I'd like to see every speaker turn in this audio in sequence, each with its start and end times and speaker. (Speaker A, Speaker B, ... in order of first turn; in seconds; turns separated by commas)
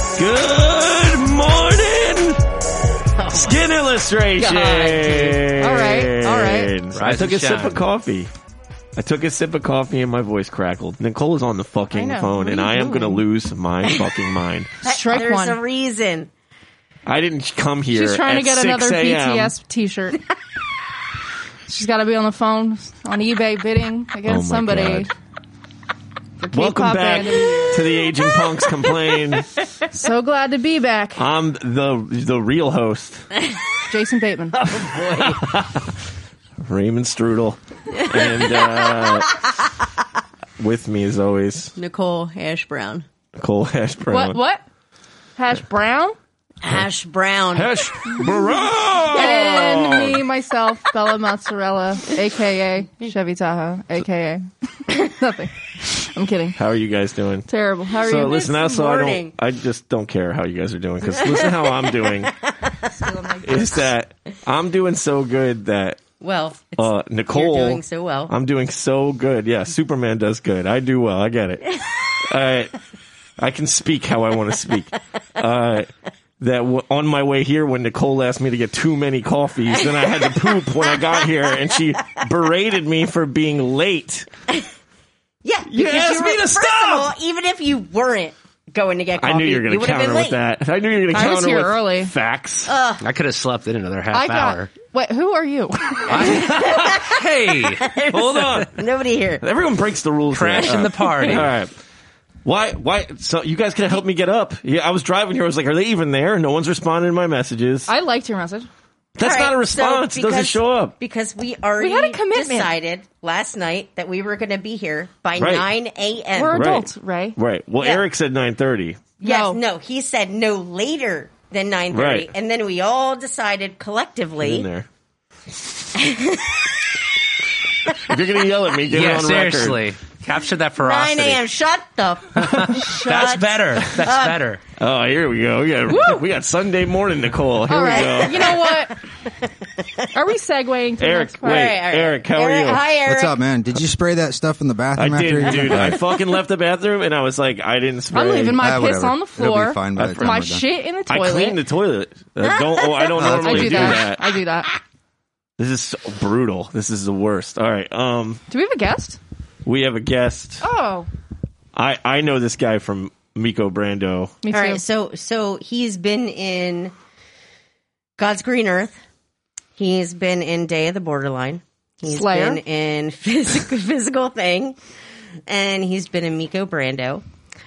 Speaker A: 0.1-2.4, Speaker B: 3.2-3.7, Speaker A: 3.3-8.3, Speaker B: 4.4-5.5, Speaker C: 5.6-6.7, Speaker D: 6.9-7.8, Speaker A: 9.0-14.8, Speaker C: 11.9-13.0, Speaker B: 12.7-13.2, Speaker C: 14.8-15.6, Speaker B: 14.8-16.3, Speaker A: 17.1-19.6, Speaker C: 17.9-20.2, Speaker C: 21.7-25.1, Speaker A: 24.3-25.1, Speaker C: 26.4-28.0, Speaker A: 26.5-29.5, Speaker C: 29.9-31.2, Speaker A: 31.2-33.3, Speaker C: 33.9-34.6, Speaker A: 34.6-36.0, Speaker B: 34.9-35.3, Speaker A: 36.6-39.5, Speaker B: 38.0-39.2, Speaker A: 40.6-41.7, Speaker B: 41.8-43.0, Speaker A: 43.4-44.4, Speaker C: 44.1-44.6, Speaker C: 45.4-46.2, Speaker B: 46.6-48.4, Speaker A: 47.5-50.2, Speaker C: 48.1-48.4, Speaker C: 49.0-56.6, Speaker B: 49.1-49.9, Speaker A: 56.6-62.3, Speaker C: 57.5-58.5, Speaker B: 58.1-59.4, Speaker B: 61.2-63.8, Speaker A: 63.4-66.0, Speaker B: 66.2-68.3, Speaker A: 66.8-72.7, Speaker A: 73.4-84.3, Speaker B: 79.8-81.2, Speaker B: 85.4-90.4, Speaker A: 85.7-87.1, Speaker A: 89.2-92.7, Speaker C: 91.1-92.1, Speaker B: 92.7-93.0, Speaker D: 93.0-94.7, Speaker C: 94.1-96.4, Speaker D: 96.1-97.9, Speaker B: 96.2-99.4, Speaker A: 96.6-96.8, Speaker A: 98.1-98.8, Speaker A: 99.4-101.7, Speaker D: 100.3-101.5, Speaker A: 102.4-107.9, Speaker C: 107.9-108.7, Speaker A: 109.2-110.9, Speaker B: 109.2-116.7, Speaker C: 111.8-112.7, Speaker A: 115.4-115.7, Speaker C: 116.4-117.4, Speaker A: 116.5-119.0, Speaker B: 117.8-118.1, Speaker B: 119.2-124.7, Speaker C: 119.2-119.6, Speaker A: 121.9-122.3, Speaker A: 124.4-124.9, Speaker B: 126.0-126.8, Speaker A: 127.9-129.8, Speaker D: 128.9-131.4, Speaker B: 130.8-134.4, Speaker D: 132.3-134.6, Speaker A: 134.8-138.6, Speaker C: 135.9-136.2, Speaker C: 137.7-139.0, Speaker B: 137.8-140.1, Speaker C: 140.1-141.8, Speaker A: 141.0-142.9, Speaker B: 141.4-143.4, Speaker E: 143.1-146.0, Speaker A: 144.9-148.7, Speaker C: 148.1-151.6, Speaker E: 148.6-150.6, Speaker A: 150.0-150.4, Speaker A: 151.1-154.3, Speaker B: 152.6-153.9, Speaker E: 153.2-154.0, Speaker C: 153.2-154.7, Speaker A: 155.6-158.4, Speaker C: 158.5-159.2, Speaker A: 159.7-160.6, Speaker C: 160.6-161.1, Speaker A: 161.7-164.4, Speaker C: 164.4-164.8, Speaker B: 164.5-166.9, Speaker B: 168.2-169.0, Speaker B: 169.8-174.8, Speaker C: 172.1-172.6, Speaker B: 175.5-177.2